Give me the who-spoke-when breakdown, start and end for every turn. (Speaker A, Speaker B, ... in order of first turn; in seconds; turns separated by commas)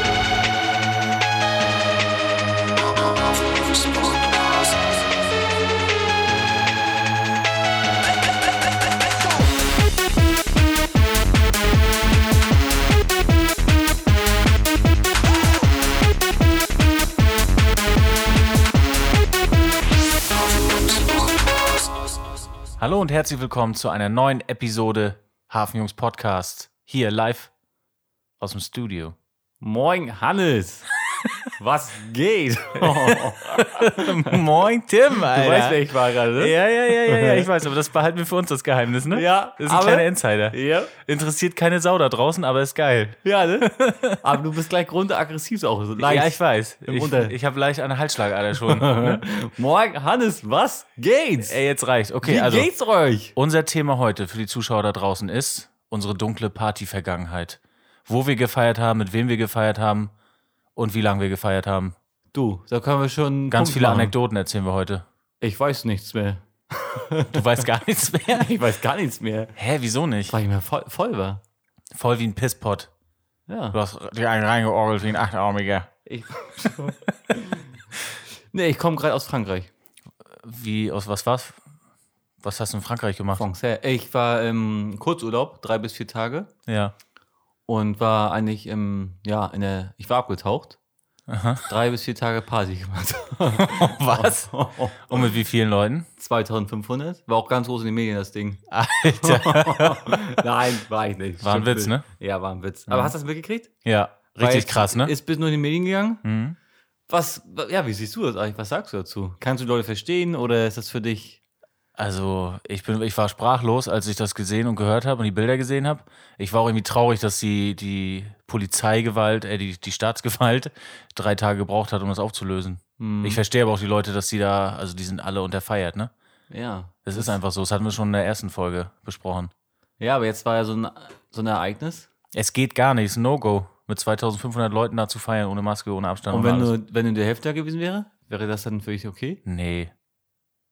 Speaker A: 22.8-27.5, Speaker A: 28.4-29.1, Speaker B: 29.6-30.9, Speaker B: 31.5-34.4, Speaker A: 32.8-35.8, Speaker B: 35.2-37.5, Speaker A: 36.4-44.4, Speaker B: 39.1-40.9, Speaker B: 43.2-43.7, Speaker B: 44.2-47.3, Speaker A: 46.0-49.2, Speaker B: 48.5-51.6, Speaker A: 51.4-52.7, Speaker B: 52.2-53.3, Speaker A: 53.4-60.1, Speaker A: 60.8-62.0, Speaker B: 62.3-64.1, Speaker A: 63.5-65.0, Speaker B: 65.4-67.7, Speaker A: 67.3-68.5, Speaker B: 68.2-69.5, Speaker A: 69.5-70.4, Speaker B: 70.3-71.4, Speaker A: 71.9-72.9, Speaker B: 73.5-73.8, Speaker A: 73.7-75.9, Speaker B: 76.0-77.7, Speaker B: 78.5-79.7, Speaker A: 80.3-81.6, Speaker A: 82.4-83.4, Speaker B: 83.3-86.5, Speaker A: 86.7-86.9, Speaker B: 87.7-90.8, Speaker A: 91.3-91.6, Speaker B: 91.6-95.3, Speaker A: 93.5-94.5, Speaker A: 95.1-96.1, Speaker B: 96.2-103.7, Speaker A: 98.7-100.4, Speaker A: 101.4-102.0, Speaker A: 102.9-103.1, Speaker A: 103.8-105.1, Speaker B: 104.4-106.2, Speaker A: 106.2-106.5, Speaker B: 107.1-111.4, Speaker A: 112.0-126.1, Speaker B: 123.0-123.4, Speaker B: 126.5-127.3, Speaker A: 127.0-129.5, Speaker B: 130.0-132.1, Speaker A: 132.3-136.7, Speaker B: 136.3-139.4, Speaker A: 139.4-139.9